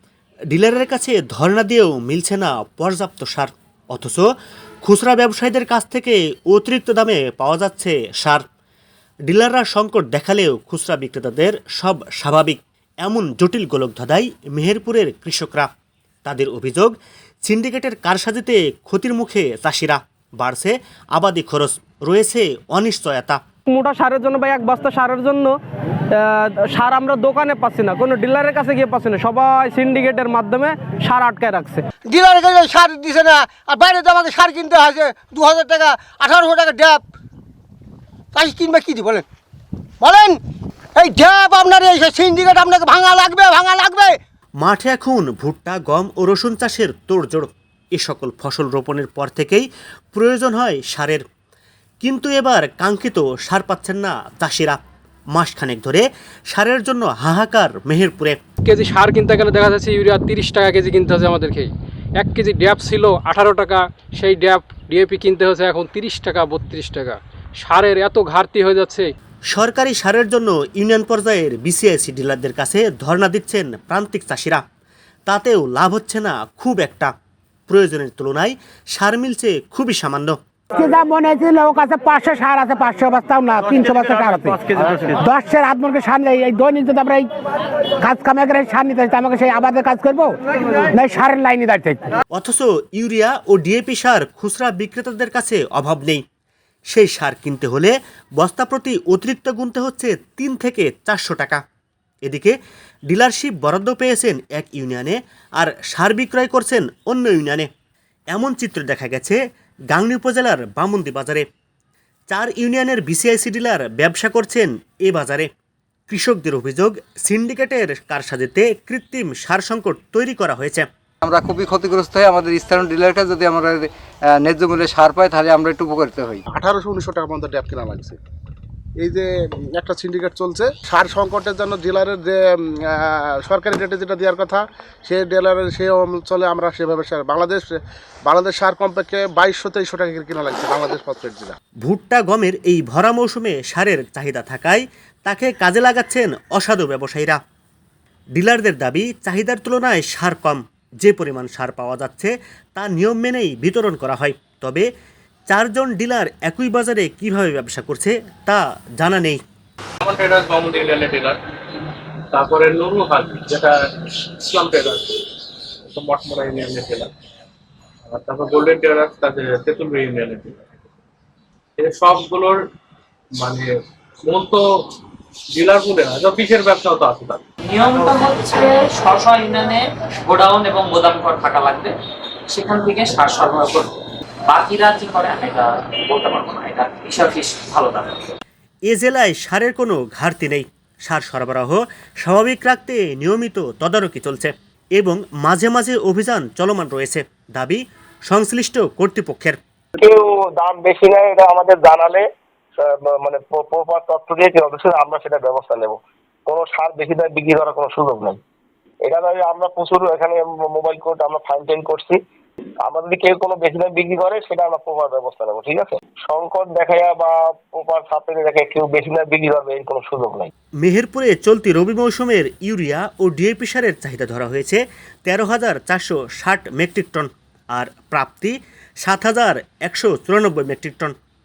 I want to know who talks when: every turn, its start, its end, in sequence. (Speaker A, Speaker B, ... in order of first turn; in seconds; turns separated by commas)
Speaker A: 0.5-4.2, Speaker A: 4.8-8.4, Speaker A: 9.3-15.7, Speaker A: 16.2-16.9, Speaker A: 17.5-23.4, Speaker B: 23.7-25.5, Speaker B: 26.2-31.8, Speaker C: 32.2-33.2, Speaker C: 34.4-34.9, Speaker C: 35.4-35.9, Speaker C: 38.8-39.2, Speaker C: 41.0-44.1, Speaker A: 44.6-51.2, Speaker A: 52.0-54.8, Speaker A: 55.3-58.4, Speaker D: 58.6-69.1, Speaker A: 69.5-74.6, Speaker A: 75.3-77.1, Speaker A: 77.7-80.4, Speaker E: 80.9-84.5, Speaker D: 82.7-83.0, Speaker D: 83.5-84.5, Speaker E: 85.2-87.2, Speaker E: 88.0-90.3, Speaker E: 90.9-92.0, Speaker A: 92.3-96.2, Speaker A: 96.9-101.6, Speaker A: 102.2-102.5, Speaker A: 103.1-107.7, Speaker A: 108.3-109.4, Speaker A: 109.9-111.4, Speaker A: 112.3-115.5, Speaker A: 116.1-120.9, Speaker F: 121.2-126.4, Speaker G: 126.5-128.2, Speaker G: 129.0-141.6, Speaker A: 141.8-147.4, Speaker A: 148.3-154.9, Speaker A: 155.5-159.4, Speaker H: 160.0-161.4, Speaker H: 162.3-165.2, Speaker H: 165.9-167.1, Speaker H: 168.1-170.6, Speaker H: 171.8-172.6, Speaker H: 173.4-173.7, Speaker H: 174.2-174.7, Speaker H: 175.5-177.4, Speaker I: 177.6-181.9, Speaker I: 182.5-183.9, Speaker I: 184.5-188.2, Speaker A: 188.9-199.6, Speaker J: 200.0-202.2, Speaker J: 202.8-208.4, Speaker J: 209.0-212.2, Speaker J: 212.8-220.5, Speaker A: 220.8-231.1